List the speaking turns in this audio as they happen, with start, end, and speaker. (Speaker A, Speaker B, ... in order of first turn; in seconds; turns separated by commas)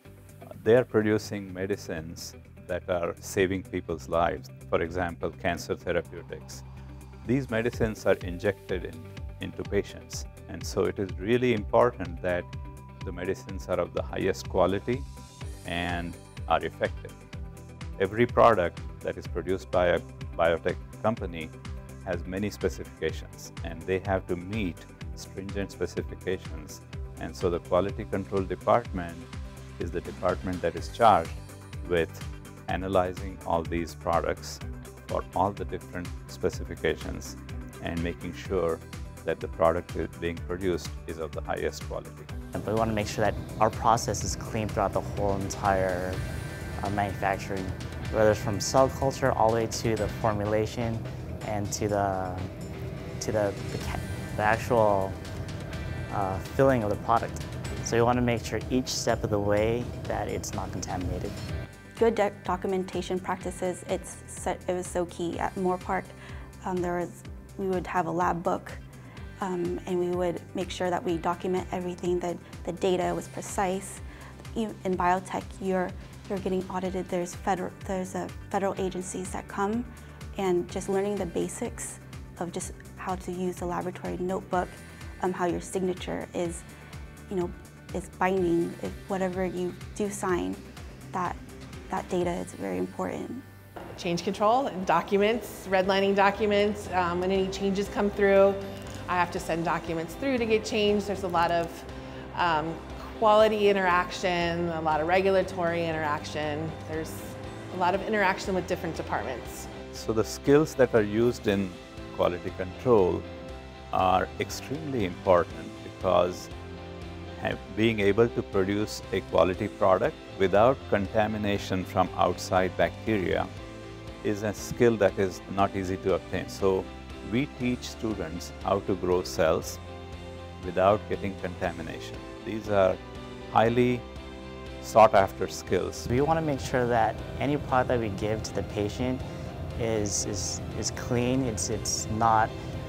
Speaker A: 0.5-6.6, Speaker A: 7.2-12.5, Speaker A: 13.0-15.1, Speaker A: 15.6-17.1, Speaker A: 18.0-21.5, Speaker A: 22.0-42.3, Speaker B: 42.5-46.2, Speaker B: 46.8-52.5, Speaker B: 53.2-55.2, Speaker B: 56.1-61.4, Speaker C: 62.0-68.8, Speaker C: 69.4-74.0, Speaker C: 74.5-86.6, Speaker C: 87.3-93.4, Speaker D: 93.9-109.7, Speaker A: 109.9-113.2, Speaker A: 113.9-116.5, Speaker A: 117.4-123.5, Speaker A: 124.2-129.8, Speaker A: 130.6-134.0, Speaker A: 134.8-136.1, Speaker B: 136.1-139.2, Speaker B: 139.8-142.5